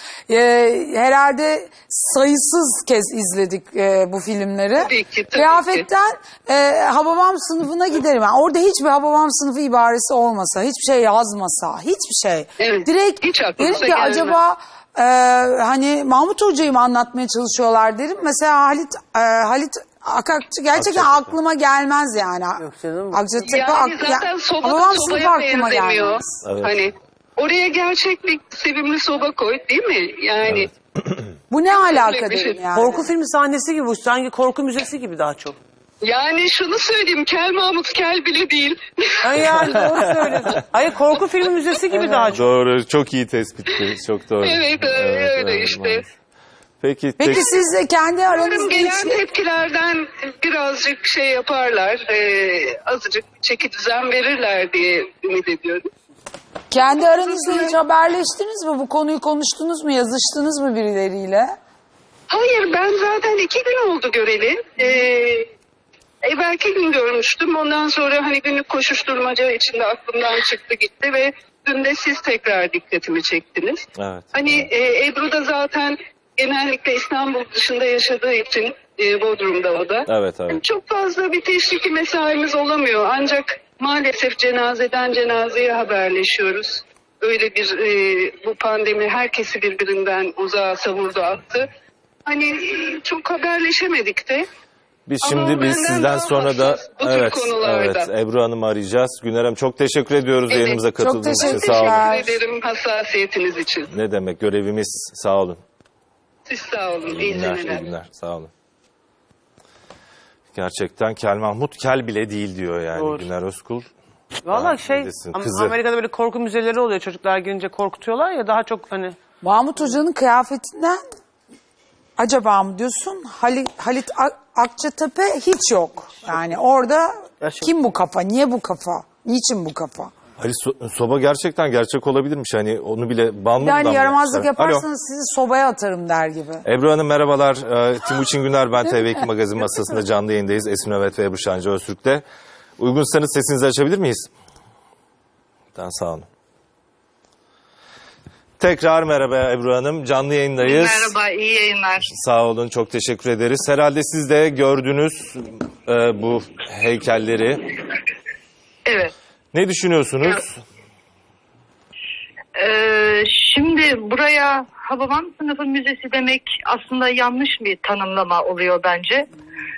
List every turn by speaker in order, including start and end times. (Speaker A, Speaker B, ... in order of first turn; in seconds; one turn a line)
Speaker A: 0.3-26.4
Speaker B: 4.8-5.8
Speaker B: 12.6-14.4
Speaker C: 20.7-21.3
Speaker D: 22.6-23.2
Speaker B: 23.4-30.7
Speaker C: 26.4-26.8
Speaker A: 31.5-33.1
Speaker B: 31.7-32.7
Speaker D: 32.7-35.5
Speaker B: 36.0-40.0
Speaker D: 39.2-42.4
Speaker A: 39.3-40.6
Speaker C: 39.8-40.1
Speaker A: 41.9-42.3
Speaker C: 42.3-46.1
Speaker B: 44.4-46.0
Speaker C: 46.8-47.5
Speaker A: 47.2-49.2
Speaker B: 47.3-47.7
Speaker B: 48.2-55.9
Speaker A: 56.7-61.5
Speaker B: 56.8-57.8
Speaker B: 62.3-65.5
Speaker B: 66.2-91.7
Speaker C: 74.0-74.7
Speaker C: 80.1-80.6
Speaker B: 92.2-94.5
Speaker C: 95.1-102.1
Speaker B: 95.2-98.1
Speaker B: 100.5-100.8
Speaker A: 101.0-102.3
Speaker B: 101.4-103.9
Speaker C: 103.9-105.6
Speaker B: 106.5-107.8
Speaker C: 107.1-108.5
Speaker C: 110.5-113.9
Speaker D: 112.9-113.3
Speaker D: 114.4-119.2
Speaker C: 114.5-115.8
Speaker A: 119.4-121.0
Speaker A: 122.2-130.1
Speaker D: 127.4-127.7
Speaker C: 130.4-134.8
Speaker A: 133.6-136.6
Speaker C: 136.6-142.2
Speaker C: 142.8-144.3
Speaker C: 145.7-146.2
Speaker C: 148.6-151.1
Speaker E: 150.6-152.1
Speaker C: 152.1-157.7
Speaker E: 158.8-159.1
Speaker C: 159.5-160.6
Speaker E: 162.5-169.3